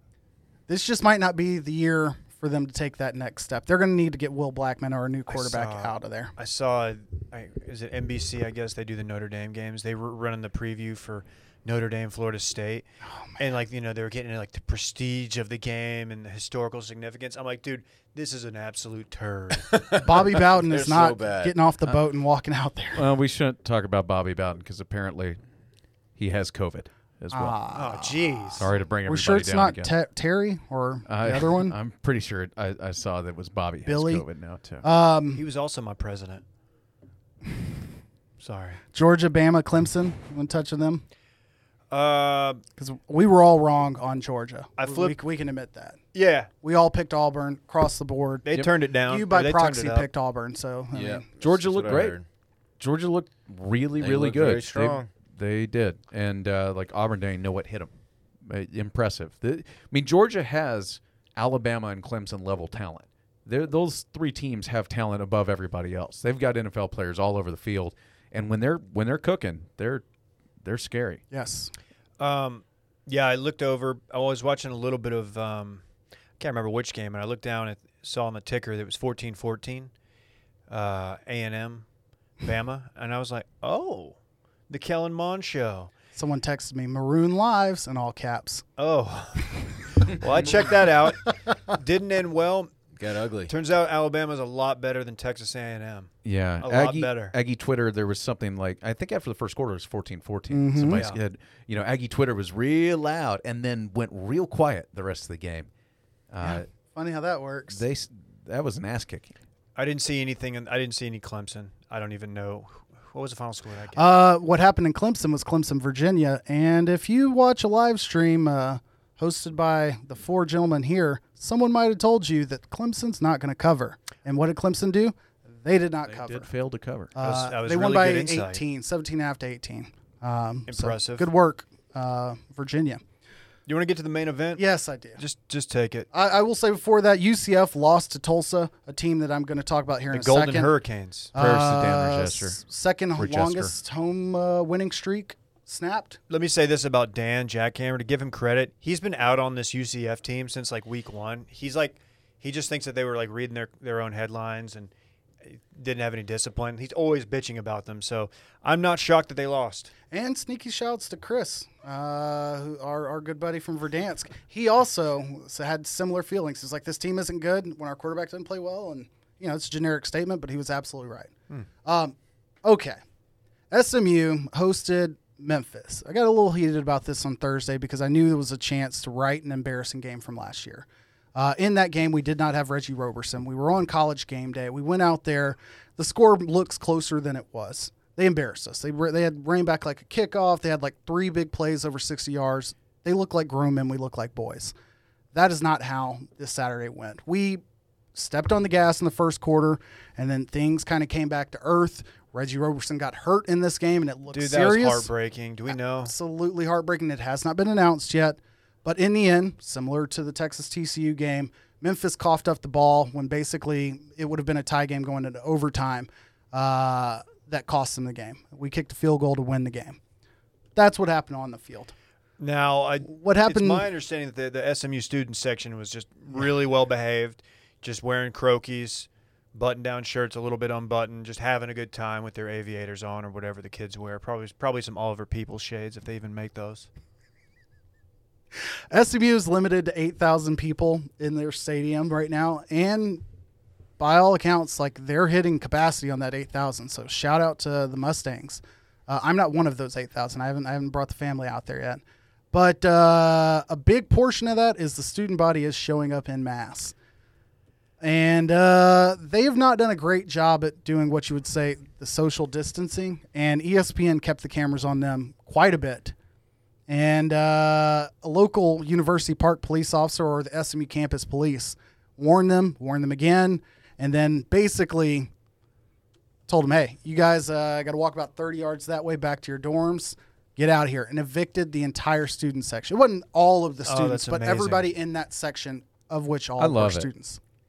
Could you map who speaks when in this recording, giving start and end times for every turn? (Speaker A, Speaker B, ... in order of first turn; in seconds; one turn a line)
Speaker A: 0.7-6.3
Speaker B: 5.3-19.7
Speaker A: 13.1-13.4
Speaker C: 19.7-21.5
Speaker A: 20.0-23.1
Speaker D: 22.9-25.4
Speaker D: 26.2-27.6
Speaker A: 27.3-31.8
Speaker B: 27.7-28.7
Speaker D: 28.6-29.9
Speaker D: 31.1-34.8
Speaker A: 33.9-34.2
Speaker A: 34.8-35.4
Speaker B: 35.3-36.4
Speaker B: 38.4-38.8
Speaker A: 38.9-41.0
Speaker B: 41.9-42.6
Speaker A: 42.8-46.0
Speaker B: 44.8-45.2
Speaker B: 46.1-46.5
Speaker A: 46.6-48.5
Speaker B: 48.5-50.1
Speaker A: 49.0-51.2
Speaker C: 50.9-52.2
Speaker D: 51.4-52.2
Speaker D: 52.8-57.9
Speaker C: 54.0-55.1
Speaker D: 58.5-70.0
Speaker D: 70.6-71.2
Speaker A: 71.3-71.7
Speaker B: 72.2-75.8
Speaker B: 76.4-79.9
Speaker B: 80.7-81.8
Speaker B: 82.4-84.2
Speaker B: 84.7-85.9
Speaker A: 86.1-88.6
Speaker B: 88.8-92.7
Speaker C: 92.9-93.5
Speaker B: 93.5-97.3
Speaker D: 96.2-105.7
Speaker A: 100.5-101.0
Speaker B: 100.9-101.2
Speaker D: 106.3-106.7
Speaker A: 106.4-107.8
Speaker D: 107.7-109.3
Speaker B: 109.8-114.0
Speaker A: 113.9-126.5
Speaker D: 126.1-127.1
Speaker A: 127.1-133.0
Speaker B: 127.2-128.6
Speaker B: 130.7-131.3
Speaker B: 133.7-134.6
Speaker A: 134.6-135.2
Speaker B: 135.2-136.1
Speaker A: 136.1-140.7
Speaker B: 140.1-141.3
Speaker A: 141.3-146.2
Speaker D: 141.3-142.6
Speaker D: 143.2-143.7
Speaker B: 146.3-154.9
Speaker B: 155.4-159.9
Speaker A: 160.1-171.3
Speaker A: 171.8-173.0
Speaker A: 173.7-194.7
Speaker A: 195.3-197.6
Speaker A: 198.1-205.1
Speaker B: 204.3-206.1
Speaker A: 205.7-220.0
Speaker A: 220.7-221.9
Speaker B: 222.4-236.9
Speaker A: 223.0-223.8
Speaker A: 238.9-243.2
Speaker A: 244.0-256.9
Speaker A: 258.0-266.1
Speaker A: 266.9-275.3
Speaker A: 276.5-287.4
Speaker B: 283.8-284.9
Speaker D: 286.6-287.1